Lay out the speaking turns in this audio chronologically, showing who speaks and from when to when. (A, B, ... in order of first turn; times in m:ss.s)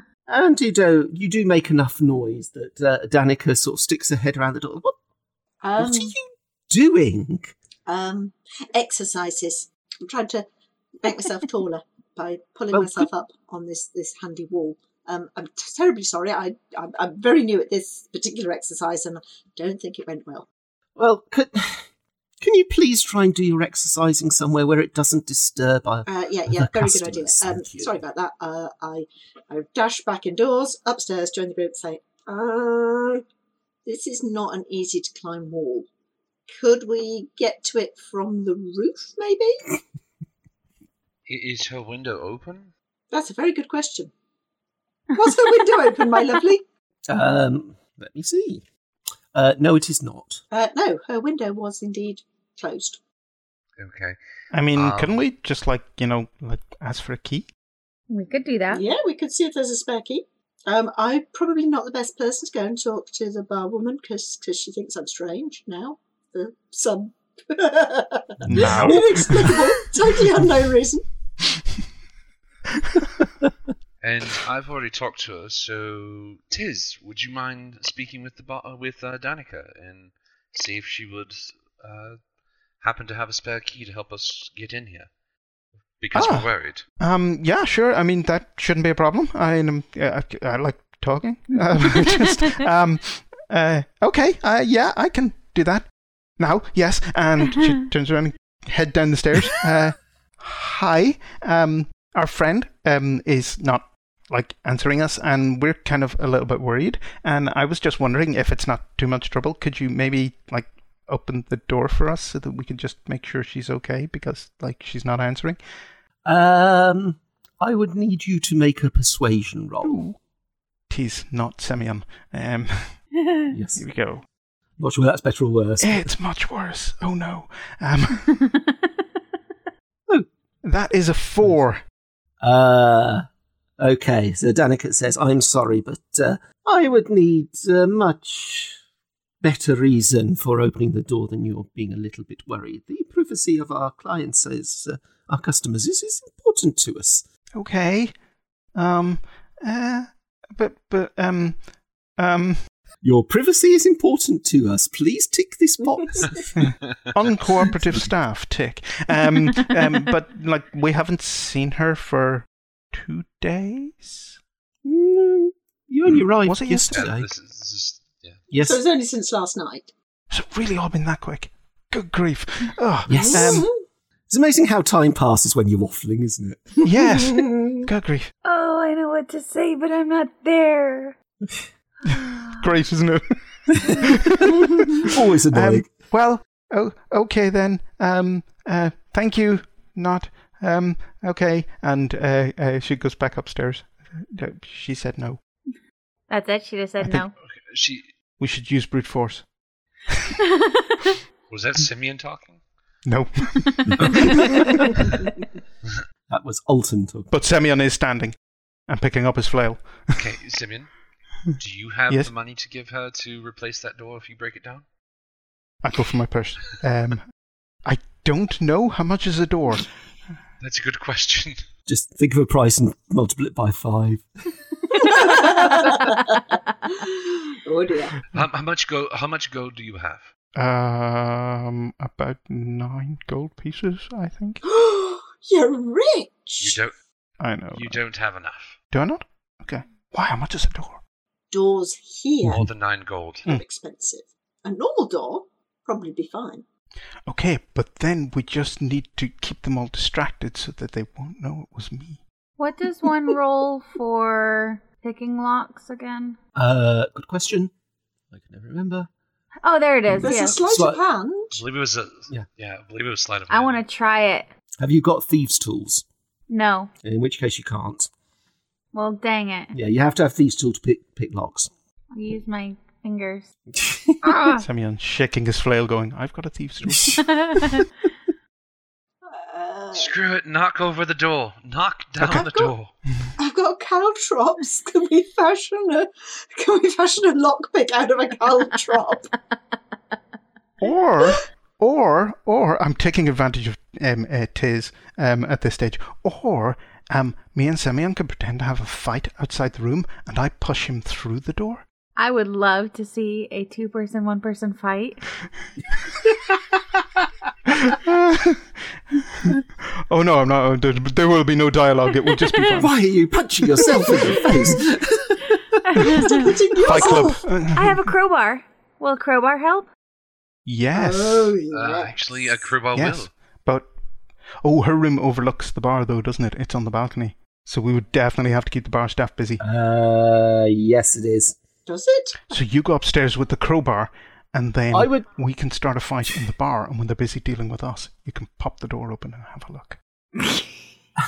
0:00.3-0:05.0 A
0:05.6-0:06.1 B
0:05.8-0:07.5 A
0:07.9-0:10.5 B
0:11.0-0:20.5 B
0:12.7-0:13.1 A
0:21.0-0:21.9 A
0:22.4-0:28.0 A
0:26.1-0:33.2 B
0:33.8-0:35.9 B
0:36.5-0:39.8 B
0:41.3-0:42.7 C
0:43.1-0:44.1 B
0:45.1-0:46.6 B
0:47.1-0:48.6 A
0:49.3-0:50.4 A
0:50.5-0:53.0 B
0:53.8-0:54.2 C
0:54.5-0:57.5 D
0:54.7-0:55.2 C
0:58.1-0:58.9 E
0:58.7-1:11.0 B
1:08.4-1:09.8 D
1:08.5-1:09.2 A
1:14.0-1:22.2 C
1:22.8-1:25.1 C
1:26.0-1:26.8 C
1:26.1-1:26.5 D
1:27.0-1:55.6 D
1:31.8-1:32.1 E
1:56.2-2:00.0 A
1:59.8-2:00.2 D
2:00.9-2:03.0 D
2:03.3-2:03.5 E
2:03.5-2:03.8 A
2:03.8-2:04.2 D
2:04.8-2:06.1 A
2:05.8-2:08.6 D
2:10.6-2:11.8 D
2:12.4-2:13.3 A
2:13.8-2:18.8 A
2:19.4-2:27.2 A
2:27.6-2:28.1 D
2:28.7-2:31.6 D
2:32.1-2:32.6 D
2:33.0-2:36.4 A
2:36.6-2:44.4 D
2:44.8-2:47.3 A
2:46.4-2:47.1 D
2:46.9-2:48.4 C
2:48.5-2:48.8 A
2:48.6-2:49.9 B
2:50.3-2:53.7 D
2:53.1-2:53.7 A
2:53.1-2:53.7 B
2:54.3-2:56.9 A
2:56.8-2:58.3 D
2:57.3-2:57.8 B
2:58.4-3:01.2 E
3:02.1-3:02.6 E
3:02.4-3:15.4 D
3:03.8-3:05.9 A
3:16.3-3:17.3 E
3:17.5-3:18.1 C
3:18.4-3:19.4 D
3:20.6-3:21.1 E
3:21.5-3:22.6 C
3:23.0-3:25.2 D
3:24.1-3:24.6 E
3:26.3-3:27.3 A
3:27.3-3:30.2 D
3:30.2-3:30.9 C
3:31.5-3:34.8 C
3:35.8-3:37.3 D
3:37.8-3:39.9 D
3:40.6-3:41.6 C
3:41.9-3:44.2 A
3:44.9-3:46.3 B
3:46.9-3:48.2 B
3:48.3-3:50.3 C
3:50.6-3:54.6 D
3:54.6-3:56.8 B
3:56.6-3:57.0 C
3:57.4-3:58.0 D
3:57.7-3:58.8 C
3:58.9-4:01.0 D
4:01.5-4:02.7 B
4:02.4-4:03.5 C
4:03.4-4:06.6 B
4:07.3-4:12.2 D
4:12.6-4:16.4 E
4:16.6-4:17.7 A
4:18.3-4:19.1 A
4:19.6-4:20.6 E
4:20.1-4:21.0 A
4:20.2-4:21.6 B
4:21.5-4:23.8 C
4:23.5-4:24.5 E
4:24.8-4:26.0 A
4:26.5-4:26.9 E
4:27.0-4:28.1 A
4:28.9-4:29.7 E
4:29.7-4:31.7 A
4:32.1-4:33.5 E
4:33.7-4:34.2 A
4:34.2-4:34.6 E
4:34.5-4:37.3 D
4:37.2-4:37.9 E
4:39.3-4:40.1 B
4:39.9-4:42.9 C
4:42.2-4:42.6 D
4:42.3-4:42.7 B
4:43.4-4:49.3 B
4:50.8-5:01.8 D
5:02.2-5:05.2 E
5:07.7-5:13.0 D
5:12.7-5:16.2 A
5:15.8-5:19.9 E
5:16.2-5:17.4 B
5:16.8-5:18.1 D
5:20.6-5:21.6 D
5:20.9-5:22.6 B
5:21.7-5:23.3 C
5:22.9-5:23.9 D
5:24.6-5:29.6 D
5:29.6-5:31.6 A
5:31.9-5:32.6 B
5:32.5-5:40.0 D
5:34.9-5:35.3 A